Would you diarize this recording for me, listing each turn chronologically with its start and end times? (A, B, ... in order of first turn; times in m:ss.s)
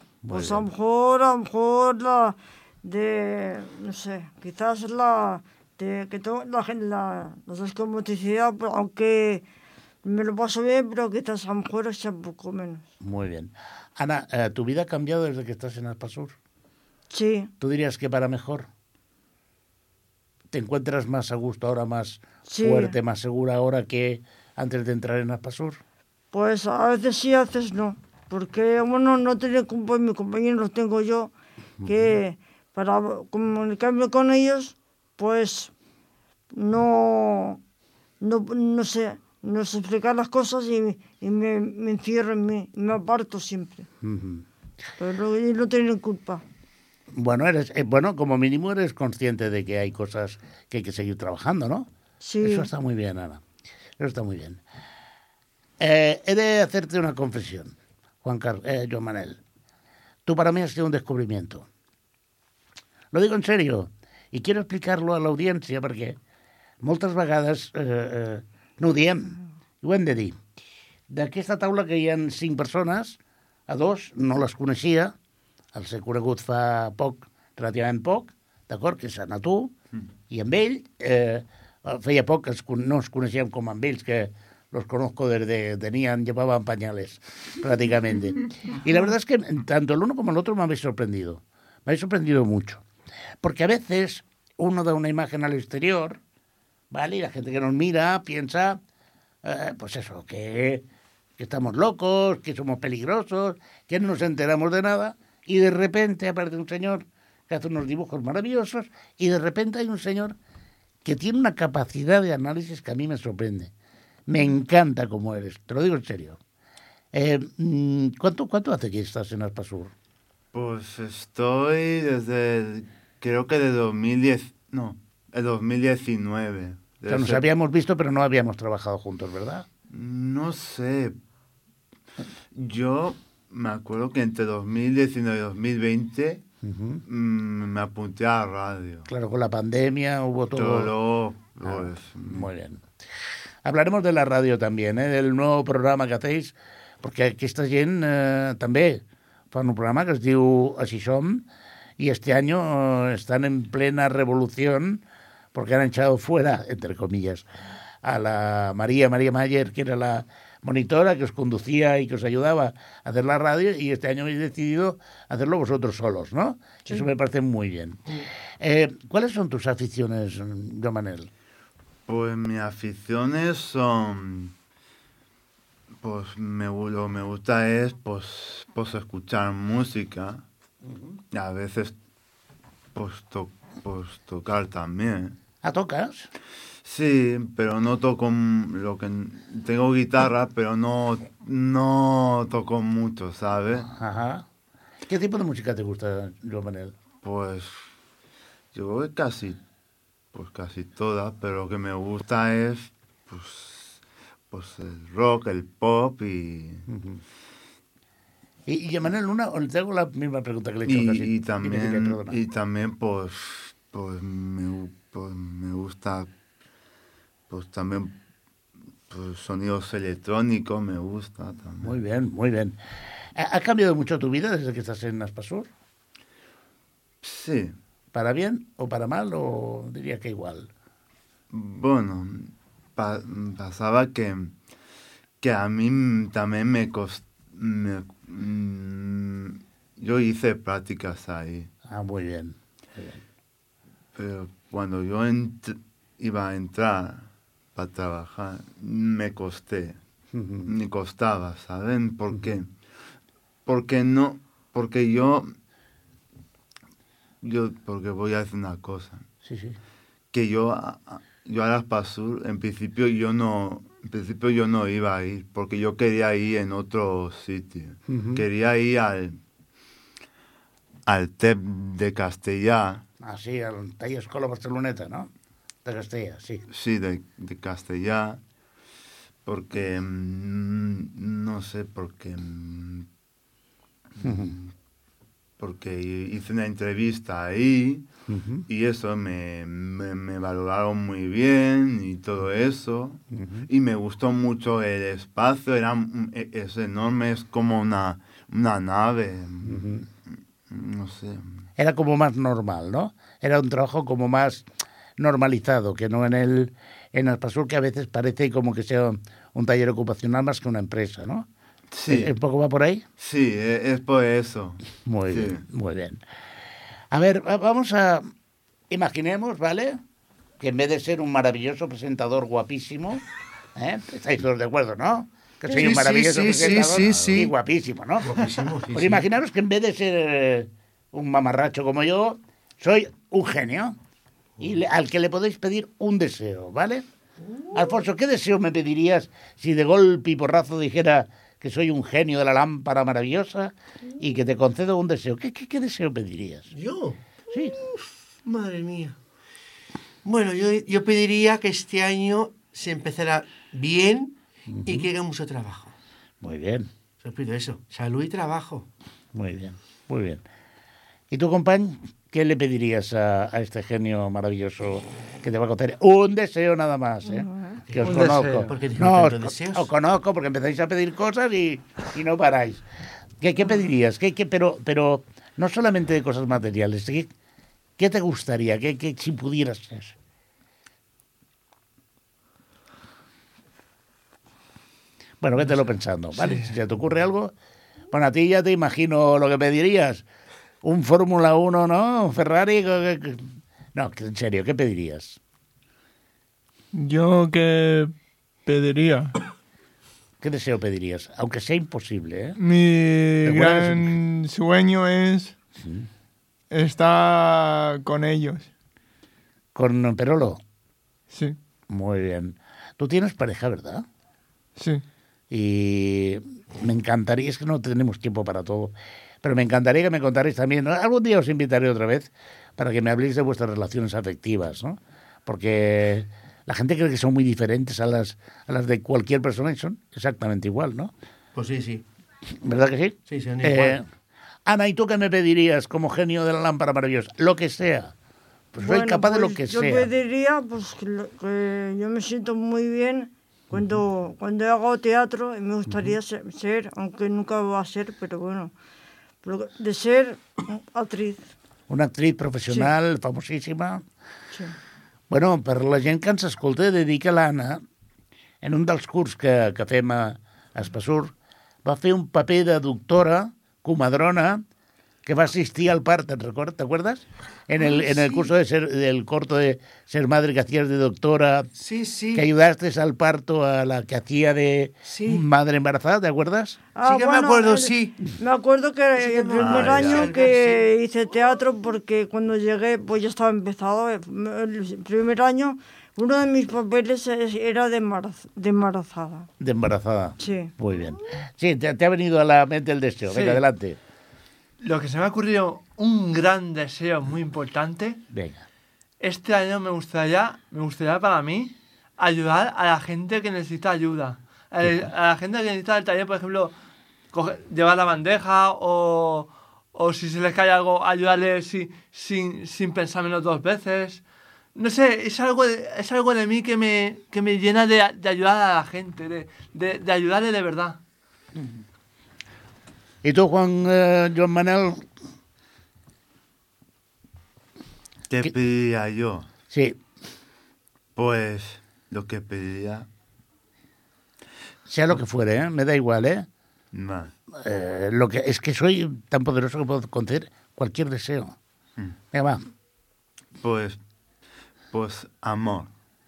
0:00.2-0:00.7 A
0:00.3-0:09.4 B
0:10.0-0:12.9 B
0:13.0-0:16.3 A
0:17.1-0:17.5 B
0:17.6-0:18.7 A
0:20.5-0:25.8 A
0:22.4-0:23.0 B
0:26.3-0:31.3 B
0:31.8-0:32.2 A
0:31.9-0:35.7 B
0:36.5-0:37.6 B
0:38.2-0:43.9 B
0:44.0-0:44.4 A
0:45.0-0:46.4 B
0:47.1-0:51.9 A
0:52.2-0:52.7 B
0:52.4-0:53.4 A
0:54.0-0:54.6 A
0:55.8-0:59.4 A
1:00.2-1:01.6 A
1:03.1-1:06.2 A
1:06.8-1:10.4 A
1:11.1-1:15.1 A
1:15.7-1:19.7 A
1:20.3-1:32.8 A
1:33.4-1:36.2 A
1:36.9-1:38.8 A
1:39.4-1:40.8 A
1:41.4-1:50.4 A
1:51.0-1:53.7 A
1:54.3-1:56.4 A
1:57.1-1:59.9 A
2:00.5-2:07.4 C
2:07.1-2:09.6 A
2:09.9-2:11.2 C
2:12.5-2:16.4 C
2:16.6-2:17.0 A
2:17.0-2:19.1 C
2:19.1-2:20.9 A
2:20.5-2:22.5 C
2:21.6-2:22.8 A
2:23.6-2:31.4 A
2:32.0-2:35.0 A
2:35.5-2:37.4 A
2:38.0-2:48.0 A
2:48.6-2:51.3 A
2:52.1-2:54.5 C
2:56.0-3:00.4 C
3:01.3-3:01.9 C
3:02.9-3:05.4 C
3:05.6-3:06.3 A
3:06.8-3:13.9 C
3:13.7-3:14.4 A
3:15.0-3:16.9 A
3:17.2-3:17.8 C
3:18.7-3:19.6 C
3:20.3-3:26.9 C
3:26.9-3:27.2 A
3:28.7-3:32.4 A
3:30.8-3:36.3 C
3:37.5-3:38.2 C
3:39.1-3:42.0 C
3:41.8-3:42.8 A
3:43.4-3:45.7 A
3:47.2-3:47.7 C
3:48.1-3:50.7 A
3:51.5-3:54.5 C
3:55.4-4:01.7 C
4:01.9-4:03.2 A
4:04.1-4:10.0 C
4:10.3-4:10.7 A
4:10.6-4:12.7 C
4:13.6-4:15.5 C
4:17.4-4:19.2 C
4:19.4-4:19.8 A
4:20.3-4:29.4 C
4:28.1-4:28.4 A
4:31.0-4:33.0 C
4:33.2-4:35.3 A
4:35.8-4:36.6 A
4:36.7-4:38.4 C
4:39.4-4:43.1 C
4:44.2-4:44.7 C
4:44.2-4:44.5 A
4:45.6-4:48.1 C
4:48.3-4:48.6 A
4:48.7-4:59.9 C
4:53.3-4:53.6 A
4:59.6-5:00.0 A
5:00.7-5:01.5 C
5:01.8-5:04.6 A
5:05.2-5:11.5 A
5:11.9-5:12.3 C
5:12.1-5:13.0 A
5:13.2-5:15.6 C
5:15.0-5:16.2 A
5:17.1-5:18.3 A
5:18.9-5:20.0 A
5:20.6-5:23.2 A
5:23.8-5:34.0 A
5:25.6-5:27.6 D
5:28.2-5:29.2 D
5:34.6-5:37.0 A
5:37.4-5:37.9 D
5:37.7-5:46.7 A
5:46.7-5:47.2 D
5:47.7-5:49.2 D
5:50.2-5:55.9 D
5:54.7-5:55.1 A
5:56.4-5:56.9 A
5:57.2-5:58.9 D
5:59.3-6:00.4 A
6:01.3-6:12.8 A
6:07.3-6:07.8 B
6:07.8-6:09.9 D
6:08.0-6:08.7 E
6:13.4-6:17.3 A
6:18.0-6:20.1 A
6:25.4-6:27.5 A
6:25.6-6:26.7 E
6:28.1-6:30.2 A
6:30.8-6:35.4 A
6:36.9-6:38.1 F
6:38.6-6:39.4 F
6:40.4-6:42.6 A
6:42.6-6:45.6 F
6:43.4-6:44.1 A
6:45.8-6:46.1 A
6:46.7-6:48.7 F
6:49.7-6:50.6 A
6:51.3-6:51.6 F
6:51.9-6:54.0 A
6:54.8-6:55.0 F
6:55.5-7:11.1 A
7:11.6-7:12.0 D
7:12.6-7:14.0 A
7:13.3-7:14.0 D
7:14.6-7:18.1 A
7:18.7-7:20.1 A
7:18.8-7:28.7 B
7:29.4-7:31.5 B
7:31.9-7:34.0 A
7:35.3-7:37.8 A
7:38.6-7:41.3 A
7:41.8-7:44.6 A
7:45.2-7:51.7 A
7:47.8-7:48.5 D
7:51.7-7:52.5 D
7:52.3-7:56.9 A
7:55.0-7:55.4 D
7:56.9-8:09.5 B
7:57.0-7:58.2 D
7:59.1-8:00.9 D
7:59.6-8:00.2 C
8:09.6-8:14.0 A
8:10.4-8:10.7 B
8:13.2-8:13.6 E
8:14.8-8:18.2 E
8:18.3-8:18.6 A
8:19.2-8:26.7 E
8:24.8-8:25.1 A
8:27.3-8:34.2 E
8:34.7-8:41.0 E
8:43.2-8:45.0 A
8:48.3-8:49.5 C
8:49.7-8:50.0 A
8:51.2-8:53.1 C
8:54.9-8:56.5 A
8:56.9-8:57.3 C
8:57.5-9:01.6 A
9:02.3-9:02.6 A
9:03.6-9:04.0 C
9:04.9-9:05.9 C